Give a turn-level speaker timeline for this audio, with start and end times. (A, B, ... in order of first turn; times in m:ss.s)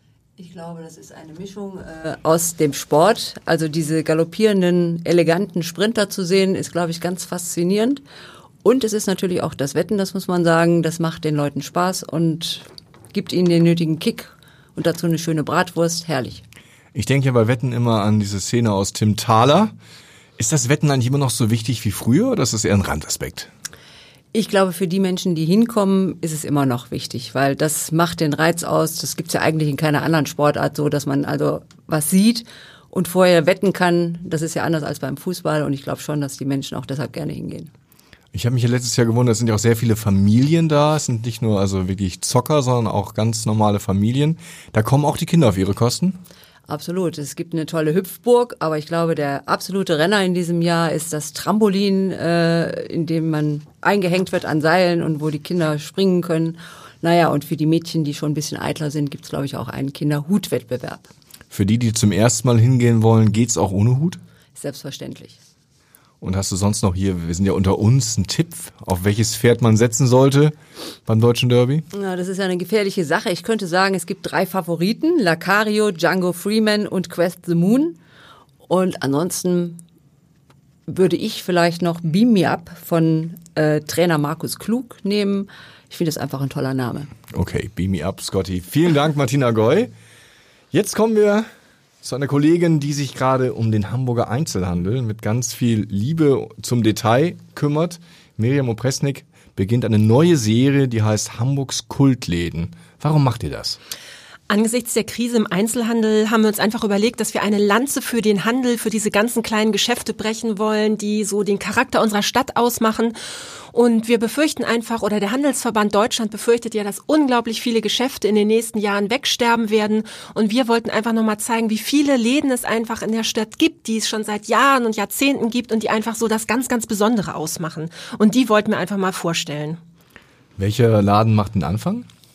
0:00.4-0:08.0 A
0:08.6-0:16.4 A
0:16.9-0:19.7 B
0:20.4-0:23.5 B
0:24.3-0:37.7 A
0:38.3-0:46.2 B
0:46.7-1:01.1 A
1:01.5-1:04.2 B
1:04.5-1:05.4 A
1:06.2-1:11.8 B
1:11.9-1:18.0 A
1:18.7-1:19.8 A
1:20.9-1:27.1 A
1:27.3-1:29.9 B
1:30.7-1:31.5 B
1:32.0-1:43.8 B
1:44.5-1:53.2 C
1:53.7-2:09.8 C
2:10.6-2:12.1 B